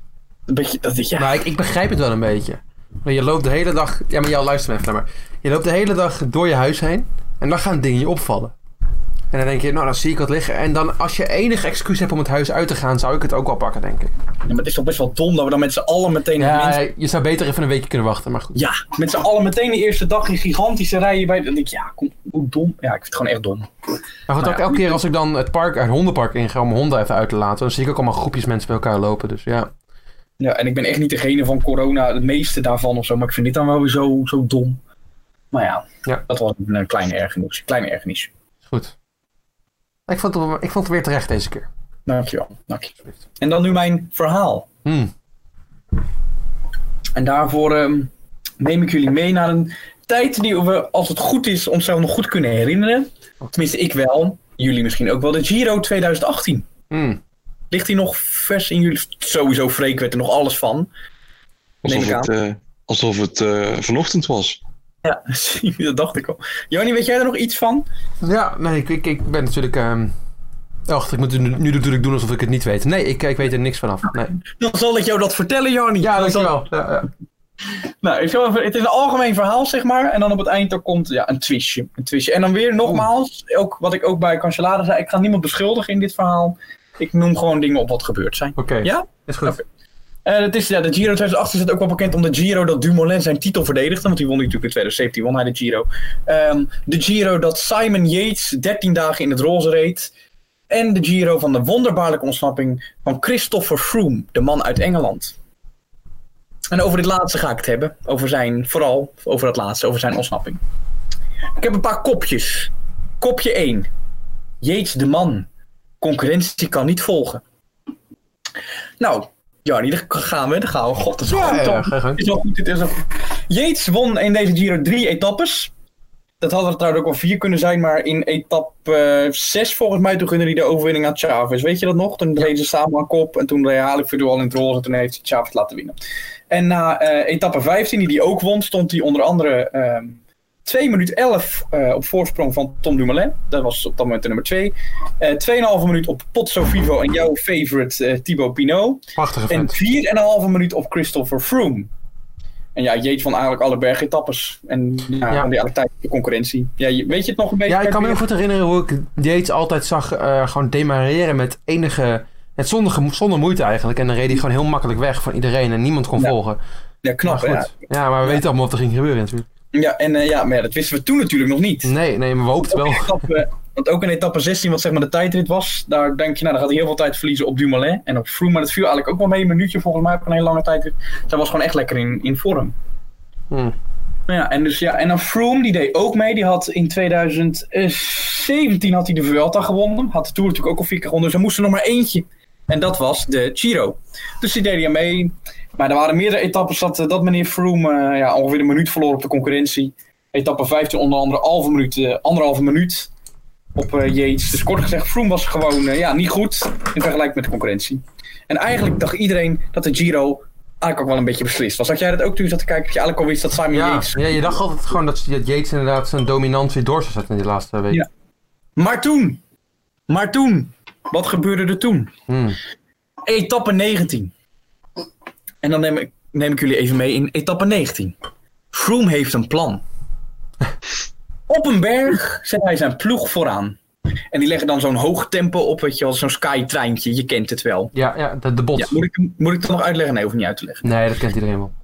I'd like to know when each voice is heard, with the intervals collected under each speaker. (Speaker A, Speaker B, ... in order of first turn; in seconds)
Speaker A: 0.5-1.3, 14.5-16.8, 18.6-23.7, 24.4-25.0, 30.4-34.8, 35.5-38.3, 42.1-44.7, 47.1-48.1, 48.6-56.7, 57.7-60.9, 61.9-62.3, 65.0-67.8, 74.6-76.6, 78.0-89.6, 90.2-100.1, 100.7-105.3, 106.7-110.6, 111.6-113.9, 114.6-115.5, 116.0-117.4, 119.0-125.7, 126.4-136.0, 136.5-151.9, 152.7-158.2, 167.0-167.7, 169.7-171.9, 172.6-182.7, 184.3-203.1, 203.8-214.5, 218.8-219.4, 220.1-222.1, 223.2-224.3, 225.6-228.1, 228.7-229.8, 231.5-233.8, 234.3-237.9, 238.8-240.8
Speaker B: 1.2-8.5, 9.3-14.1, 16.4-18.6, 24.3-29.7, 38.6-38.9, 40.1-41.7, 44.8-45.1, 56.9-57.2, 68.2-70.1, 70.9-74.3, 76.0-77.1, 88.6-89.5, 121.2-122.2, 149.2-149.7, 157.7-166.6, 167.2-169.5, 171.8-173.2, 183.5-183.7, 213.7-218.0, 222.3-222.6, 237.9-239.0, 240.8-241.7
Speaker C: 61.8-64.6